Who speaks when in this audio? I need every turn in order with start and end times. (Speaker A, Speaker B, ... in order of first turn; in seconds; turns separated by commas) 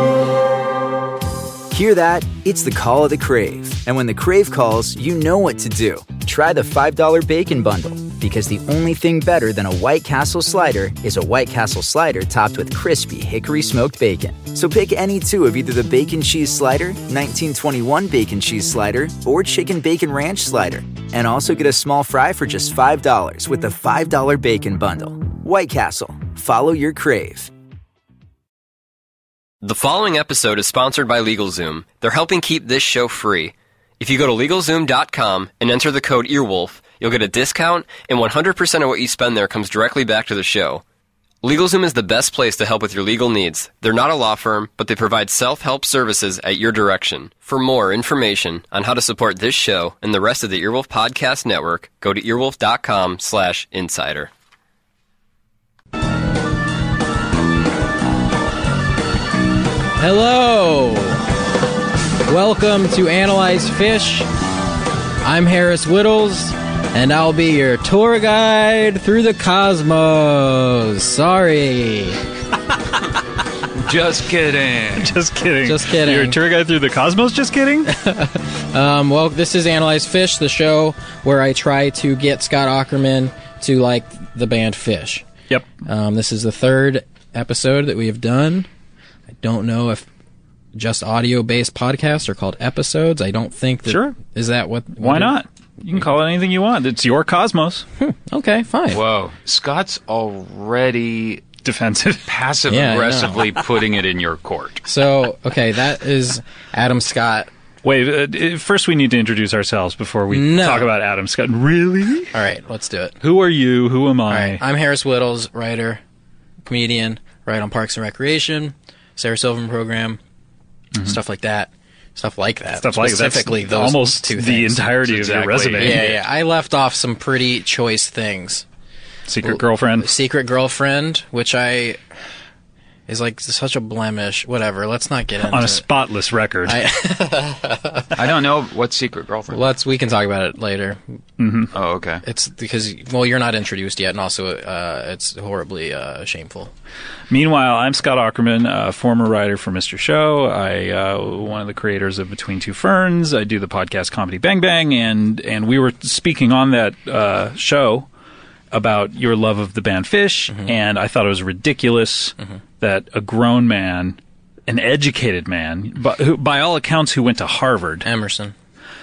Speaker A: 1.7-27.5, Speaker B: 29.6-40.8, Speaker B: 41.4-54.3, Speaker C: 60.0-61.2, Speaker C: 62.3-64.3, Speaker C: 65.2-72.2, Speaker D: 73.8-75.2, Speaker E: 75.0-77.9, Speaker C: 75.6-76.4, Speaker C: 77.9-85.2, Speaker C: 85.8-88.7, Speaker C: 89.4-90.1, Speaker C: 90.8-95.3, Speaker E: 93.9-94.2, Speaker E: 95.0-97.9, Speaker C: 98.0-99.0, Speaker D: 98.9-101.4, Speaker E: 101.6-102.3, Speaker D: 102.3-104.8, Speaker C: 102.7-103.5, Speaker C: 104.9-107.5, Speaker E: 107.8-112.3, Speaker C: 110.3-110.9, Speaker C: 112.3-113.2, Speaker E: 113.2-114.6, Speaker C: 114.3-116.0, Speaker C: 116.7-120.2, Speaker C: 121.0-125.0, Speaker E: 122.8-126.2, Speaker D: 125.1-126.2, Speaker C: 125.8-128.7, Speaker E: 129.3-130.1, Speaker C: 129.4-132.0, Speaker C: 133.1-135.8, Speaker E: 135.5-136.8, Speaker C: 136.7-138.1, Speaker D: 138.2-139.6, Speaker C: 139.5-141.0, Speaker E: 141.4-141.7, Speaker D: 141.7-142.2, Speaker C: 142.2-146.7, Speaker E: 147.3-158.1, Speaker E: 158.7-168.1, Speaker C: 168.0-168.5